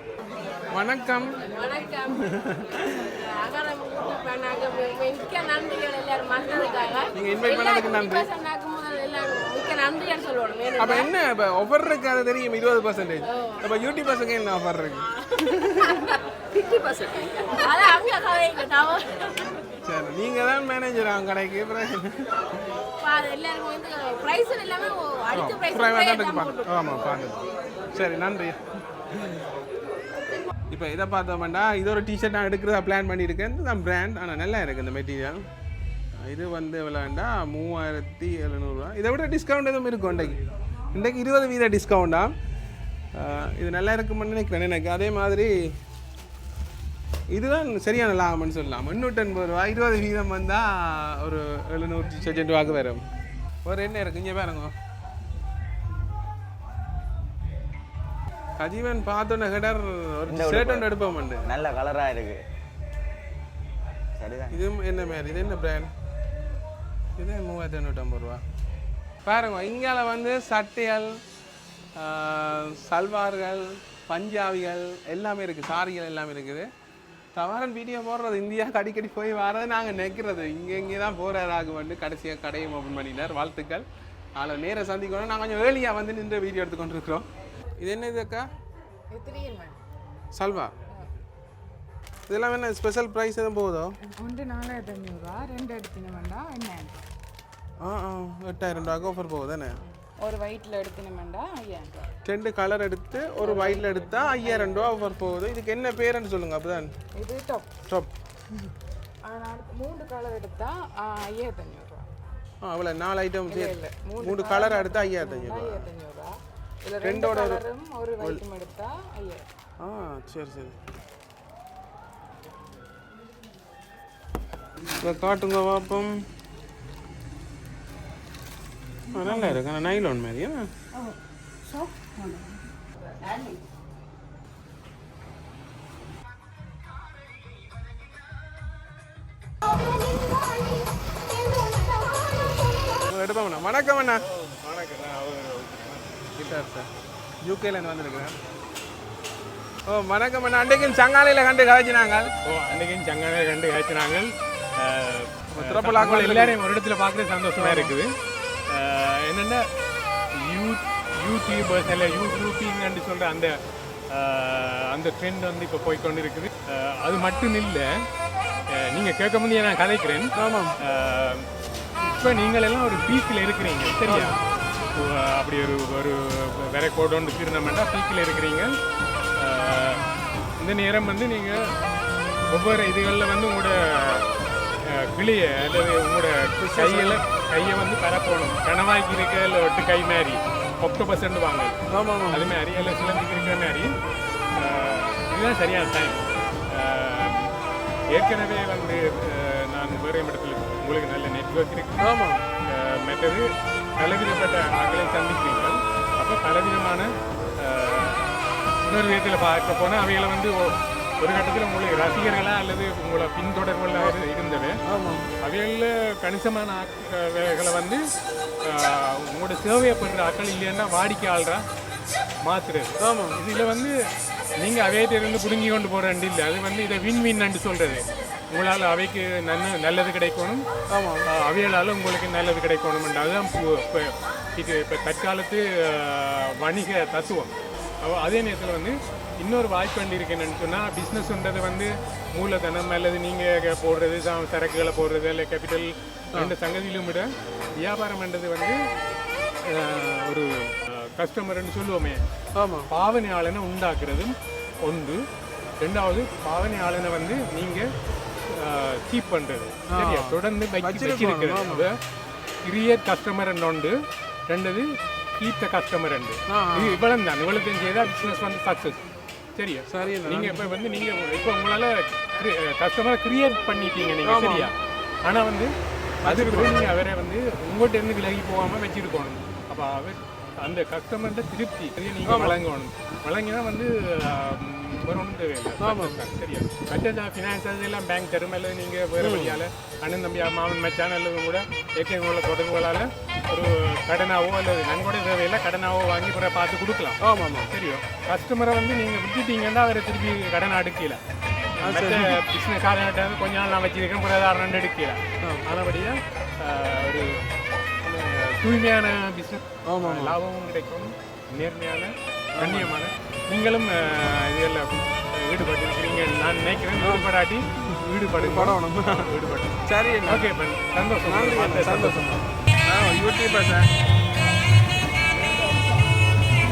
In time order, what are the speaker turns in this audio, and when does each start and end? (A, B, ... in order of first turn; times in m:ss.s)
0:00.7-0:01.4 A
0:01.5-0:02.3 B
0:02.2-0:03.0 A
0:03.2-0:11.1 B
0:07.1-0:08.3 A
0:10.8-0:16.0 A
0:13.3-0:13.8 B
0:15.8-0:19.6 B
0:19.8-0:22.5 A
0:23.0-0:26.7 B
0:25.3-0:28.6 A
0:30.7-0:35.4 A
0:36.2-0:40.4 A
0:40.9-0:42.3 A
0:43.2-0:45.7 A
0:47.3-0:53.0 A
0:53.6-0:54.7 A
0:58.6-1:01.5 A
1:00.3-1:00.9 C
1:01.4-1:02.4 C
1:04.2-1:04.6 C
1:04.5-1:05.9 A
1:07.2-1:08.4 A
1:09.2-1:11.2 A
1:12.0-1:16.7 A
1:17.4-1:27.2 A
1:27.8-1:28.5 A
1:29.1-1:29.8 D
1:30.3-1:30.7 A
1:32.3-1:33.9 A
1:34.2-1:37.0 D
1:37.8-1:39.8 A
1:40.2-1:42.1 D
1:42.2-1:46.9 A
1:43.4-1:44.8 D
1:47.2-1:47.8 D
1:49.2-1:52.1 D
1:52.6-1:55.9 A
1:53.5-1:56.3 D
1:56.8-1:59.5 D
1:57.0-1:57.6 A
1:59.8-2:00.8 A
2:05.0-2:06.2 A
2:09.1-2:10.7 A
2:12.0-2:12.4 D
2:23.0-2:24.2 A
2:24.3-2:26.2 E
2:26.3-2:26.9 A
2:27.4-2:28.4 A
2:29.9-2:32.3 A
2:32.5-2:38.1 E
2:35.5-2:36.6 A
2:37.6-2:38.0 A
2:38.7-2:39.6 E
2:40.4-2:43.5 E
2:44.1-2:47.9 E
2:48.7-2:51.5 E
2:50.4-2:50.7 A
2:52.0-2:54.4 E
2:54.0-2:54.3 A
2:55.0-2:58.7 E
2:59.4-3:00.0 E
3:00.6-3:01.6 E
3:02.5-3:04.2 E
3:04.9-3:11.7 E
3:06.6-3:07.2 A
3:11.9-3:12.5 A
3:12.3-3:13.9 E
3:14.6-3:16.2 E
3:16.7-3:17.5 E
3:18.1-3:22.1 E
3:22.0-3:22.4 A
3:22.7-3:23.4 E
3:24.0-3:27.1 E
3:27.6-3:28.2 E
3:28.9-3:34.8 E
3:34.9-3:35.3 A
3:35.4-3:38.0 E
3:38.7-3:41.6 E
3:42.4-3:43.9 E
3:43.0-3:43.4 A
3:44.6-3:50.6 E
3:50.9-3:51.2 A
3:51.4-4:07.3 E
4:07.8-4:08.8 E
4:09.7-4:12.2 E
4:12.5-4:12.9 A
4:12.9-4:14.3 E
4:14.8-4:15.2 E
4:15.8-4:17.9 E
4:18.5-4:21.9 E
4:19.9-4:21.9 A
4:22.6-4:23.9 E
4:24.5-4:24.9 E
4:25.4-4:29.0 E
4:26.5-4:27.0 A
4:29.6-4:34.7 E
4:29.9-4:30.7 A
4:34.2-4:34.7 A
4:35.2-4:35.7 E
4:36.2-4:36.9 A
4:36.2-4:57.2 E
4:42.2-4:42.6 A
4:45.8-4:46.2 A
4:49.2-4:49.6 A
4:57.2-4:57.7 A
4:57.7-5:01.2 E
5:01.8-5:07.3 E
5:01.8-5:02.4 A
5:08.0-5:19.8 E
5:09.9-5:10.4 A
5:12.6-5:12.9 A
5:17.0-5:17.3 A
5:18.4-5:19.3 A
5:19.9-5:20.5 A
5:20.3-5:22.3 E
5:21.2-5:23.9 A